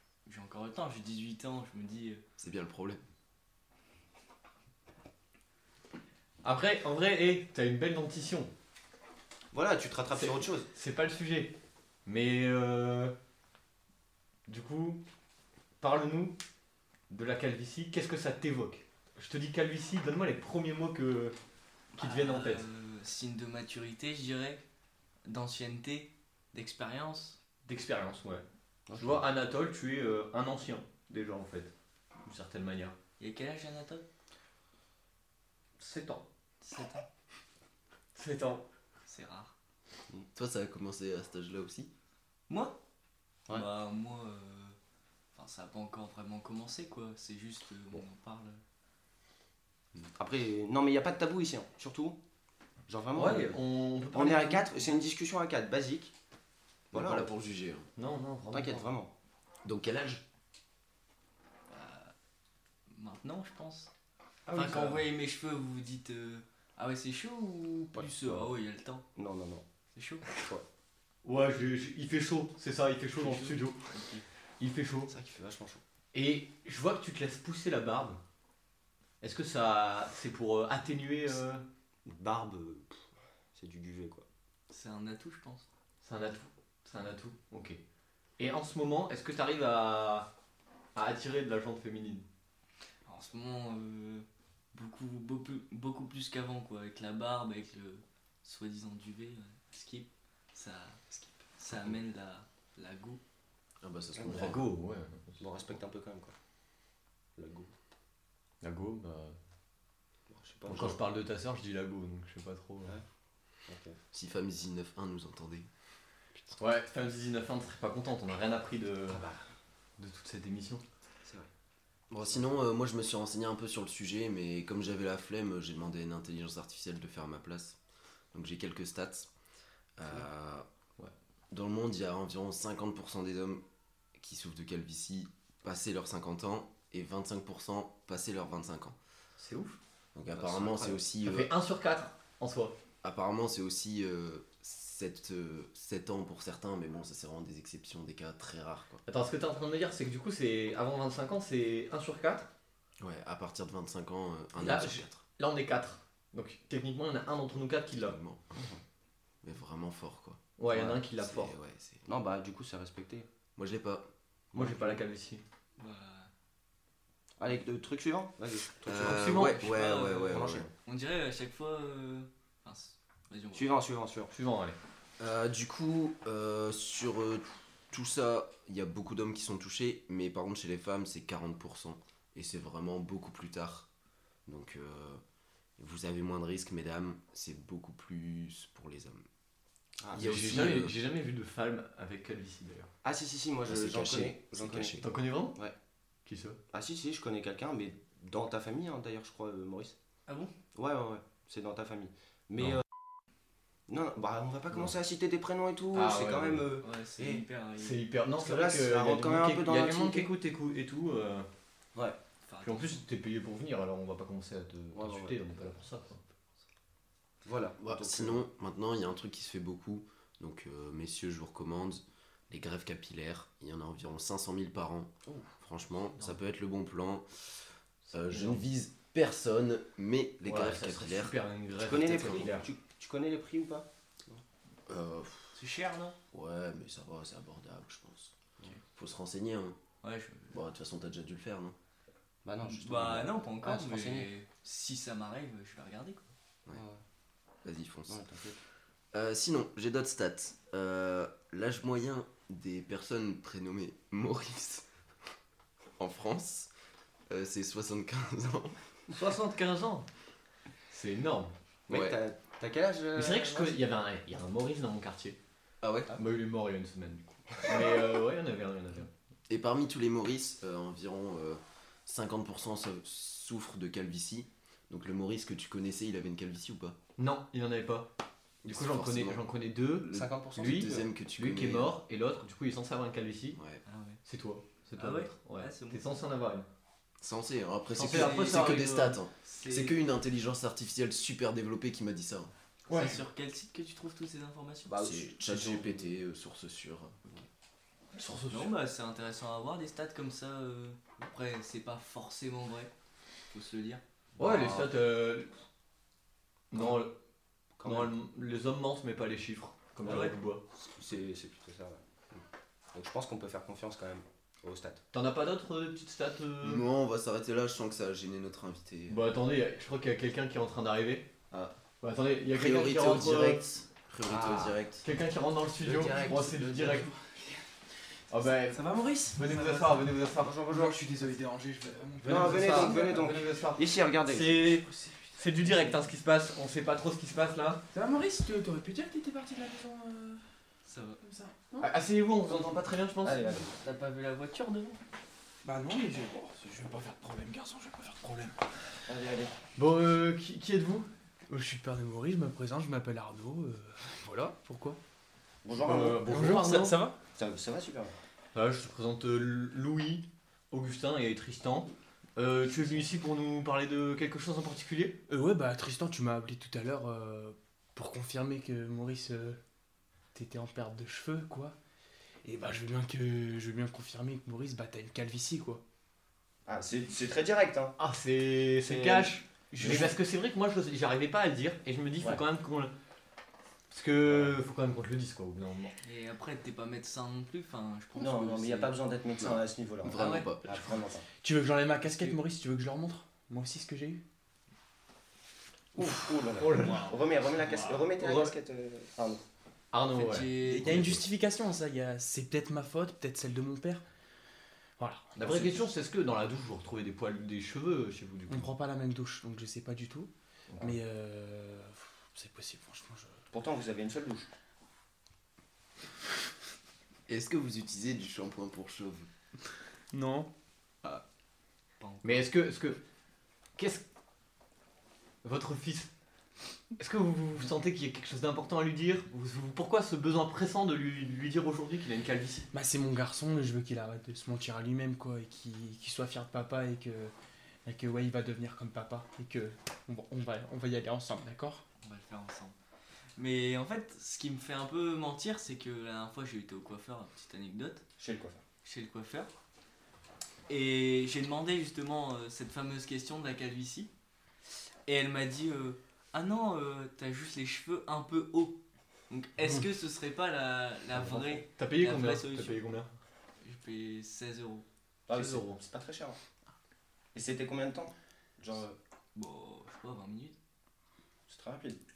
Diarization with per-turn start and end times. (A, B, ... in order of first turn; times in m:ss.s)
0:00.3-0:02.2 A
0:02.4-0:03.0 B
0:06.4-0:08.5 C
0:09.5-0:10.7 D
0:10.1-0:13.2 C
0:14.5-0:15.0 C
0:15.8-0:16.4 C
0:17.1-0:21.4 C
0:22.0-0:24.6 A
0:22.0-0:22.6 C
0:25.3-0:27.4 A
0:27.6-0:31.7 C
0:28.9-0:29.2 D
0:32.2-0:33.0 C
0:33.2-0:34.0 A
0:35.8-0:36.3 C
0:36.6-0:37.0 A
0:38.2-0:38.7 C
0:39.1-0:39.5 A
0:40.4-0:41.9 B
0:42.5-0:42.8 A
0:43.5-0:44.8 A
0:45.3-0:48.6 A
0:50.1-0:52.2 D
0:52.9-0:53.6 D
0:53.2-0:55.0 C
0:54.1-0:56.1 D
0:56.9-0:57.3 D
0:56.9-0:57.9 B
0:58.0-0:58.9 C
0:58.5-0:59.1 D
0:59.6-1:00.2 B
1:01.7-1:02.1 A
1:02.9-1:03.9 A
1:04.5-1:04.8 C
1:04.5-1:09.1 A
1:04.6-1:04.9 D
1:07.9-1:08.5 D
1:09.2-1:09.6 D
1:10.0-1:10.4 A
1:10.3-1:10.6 D
1:11.2-1:13.8 C
1:13.2-1:14.3 A
1:14.6-1:15.1 C
1:15.1-1:15.8 D
1:16.1-1:18.2 C
1:19.2-1:21.7 C
1:22.0-1:24.3 D
1:24.7-1:25.7 A
1:26.0-1:27.8 C
1:28.4-1:30.3 C
1:31.0-1:32.3 C
1:33.1-1:43.2 A
1:43.8-1:44.6 B
1:44.2-1:44.6 D
1:44.3-1:45.4 C
1:45.4-1:46.3 D
1:47.4-1:47.7 D
1:48.6-1:49.4 C
1:50.3-1:51.0 D
1:50.7-1:53.0 C
1:53.7-1:54.0 D
1:54.1-1:55.7 B
1:56.6-1:59.2 C
1:59.1-1:59.5 D
2:00.0-2:00.8 C
2:01.2-2:01.5 D
2:02.1-2:07.8 B
2:08.3-2:09.3 B
2:10.0-2:10.7 B
2:11.5-2:13.6 B
2:14.2-2:19.0 B
2:19.4-2:19.8 C
2:20.2-2:21.5 B
2:20.3-2:21.0 D
2:21.2-2:22.8 C
2:23.0-2:29.0 B
2:29.1-2:32.5 C
2:33.0-2:35.2 B
2:34.6-2:38.2 C
2:37.9-2:38.4 B
2:38.6-2:38.8 D
2:39.4-2:42.0 B
2:40.6-2:41.6 C
2:42.1-2:43.3 D
2:43.6-2:44.1 B
2:44.5-2:45.0 D
2:44.6-2:45.4 C
2:45.8-2:46.3 A
2:47.4-2:49.5 D
2:48.8-2:50.7 B
2:48.9-2:49.6 C
2:49.4-2:53.7 A
2:50.3-2:50.7 D
2:53.5-2:54.3 D
2:54.3-2:54.8 C
2:55.2-3:03.9 B
3:04.5-3:05.2 B
3:05.8-3:09.3 B
3:10.0-3:10.7 D
3:10.1-3:11.0 B
3:10.2-3:12.9 C
3:13.0-3:15.0 D
3:13.7-3:15.1 B
3:15.0-3:15.6 C
3:16.3-3:16.6 C
3:16.7-3:20.0 D
3:20.3-3:20.5 A
3:20.7-3:22.8 D
3:23.9-3:27.4 D
3:25.9-3:26.7 C
3:26.8-3:28.0 A
3:27.8-3:31.5 C
3:28.3-3:30.3 D
3:32.5-3:33.0 A
3:32.6-3:36.2 C
3:34.9-3:35.4 D
3:37.4-3:38.4 D
3:37.8-3:51.4 B
3:48.0-3:48.6 C
3:50.4-3:52.7 C
3:51.8-3:54.4 D
3:54.9-3:55.6 B
3:55.5-3:56.2 A
3:56.3-3:58.3 B
3:59.0-3:59.8 B
4:00.0-4:00.5 A
4:00.5-4:01.8 B
4:02.4-4:04.3 D
4:02.6-4:06.3 A
4:06.7-4:07.0 D
4:07.6-4:08.2 B
4:08.1-4:08.6 D
4:09.1-4:14.9 B
4:16.0-4:16.7 B
4:17.3-4:18.9 B
4:19.1-4:20.1 C
4:20.9-4:21.5 C
4:21.9-4:23.8 D
4:21.9-4:22.2 B
4:23.2-4:25.4 C
4:25.8-4:26.2 B
4:26.1-4:29.1 C
4:29.5-4:37.0 B
4:37.2-4:38.1 C
4:38.6-4:39.4 B
4:38.7-4:43.6 C
4:40.1-4:42.0 B
4:40.1-4:41.1 D
4:43.6-4:43.8 B
4:43.9-4:44.2 A
4:44.2-4:46.7 C
4:45.0-4:46.0 A
4:47.2-4:52.5 B
4:48.0-4:49.1 C
4:48.0-4:50.0 A
4:52.9-4:55.0 A
4:52.9-4:53.2 C
4:54.9-4:56.0 D
4:54.9-4:57.2 B
4:58.2-4:58.7 C
4:58.5-5:02.9 A
5:03.5-5:04.0 A
5:04.4-5:04.9 D
5:04.4-5:05.5 C
5:06.7-5:07.2 C
5:07.8-5:08.2 D
5:07.8-5:10.6 C
5:10.0-5:10.4 A
5:10.8-5:12.4 D
5:12.9-5:15.0 D
5:15.1-5:16.9 C
5:16.6-5:19.3 B
5:19.1-5:21.4 C
5:22.0-5:23.7 C
5:22.5-5:25.0 B
5:24.3-5:24.8 D
5:25.0-5:27.1 C
5:25.8-5:26.9 D
5:26.2-5:27.7 E
5:28.3-5:30.6 C
5:28.4-5:33.8 E
5:30.4-5:31.0 D
5:32.2-5:34.7 D
5:32.3-5:37.8 C
5:34.8-5:36.0 E
5:37.9-5:40.4 E
5:40.9-5:41.2 A
5:41.2-5:41.9 E
5:41.8-5:43.5 C
5:43.2-5:43.7 D
5:43.5-5:45.0 A
5:45.6-5:48.7 E
5:49.1-5:49.5 D
5:49.8-5:51.1 C
5:51.5-5:55.0 E
5:55.6-5:56.4 D
5:55.8-5:57.0 C
5:56.3-5:57.2 E
5:57.4-5:58.2 D
5:58.5-6:05.2 C
6:05.3-6:09.6 E
6:10.3-6:11.8 E
6:12.4-6:15.8 E
6:16.7-6:18.0 D
6:18.0-6:22.9 C
6:18.8-6:20.1 D
6:19.7-6:20.1 E
6:23.9-6:26.0 C
6:24.3-6:24.6 D
6:26.0-6:29.0 A
6:28.2-6:31.3 D
6:29.4-6:30.9 B
6:30.2-6:30.5 C
6:31.4-6:34.2 E
6:32.0-6:32.4 A
6:36.0-6:39.4 D
6:36.6-6:37.1 C
6:36.8-6:37.1 E
6:37.6-6:38.1 E
6:38.2-6:38.5 C
6:39.9-6:41.2 C
6:40.2-6:41.1 A
6:40.6-6:44.0 E
6:45.0-6:45.8 E
6:45.4-6:48.7 C
6:48.5-6:53.4 E
6:50.7-6:51.0 C
6:53.5-6:54.5 D
6:57.3-6:59.3 B
7:00.1-7:00.5 E
7:02.0-7:02.5 A
7:02.2-7:03.0 C
7:03.8-7:04.0 C
7:05.4-7:06.1 C
7:07.0-7:12.7 C
7:12.7-7:17.3 E
7:17.8-7:21.8 E
7:22.0-7:22.8 A
7:23.4-7:28.1 A
7:28.2-7:28.6 D
7:28.8-7:29.5 A
7:30.7-7:34.1 A
7:35.1-7:38.8 A
7:39.3-7:42.8 A
7:41.1-7:41.6 D
7:41.8-7:43.1 C
7:43.6-7:44.8 A
7:45.3-7:46.4 D
7:47.3-7:49.0 D
7:49.4-7:50.6 A
7:51.5-7:52.0 D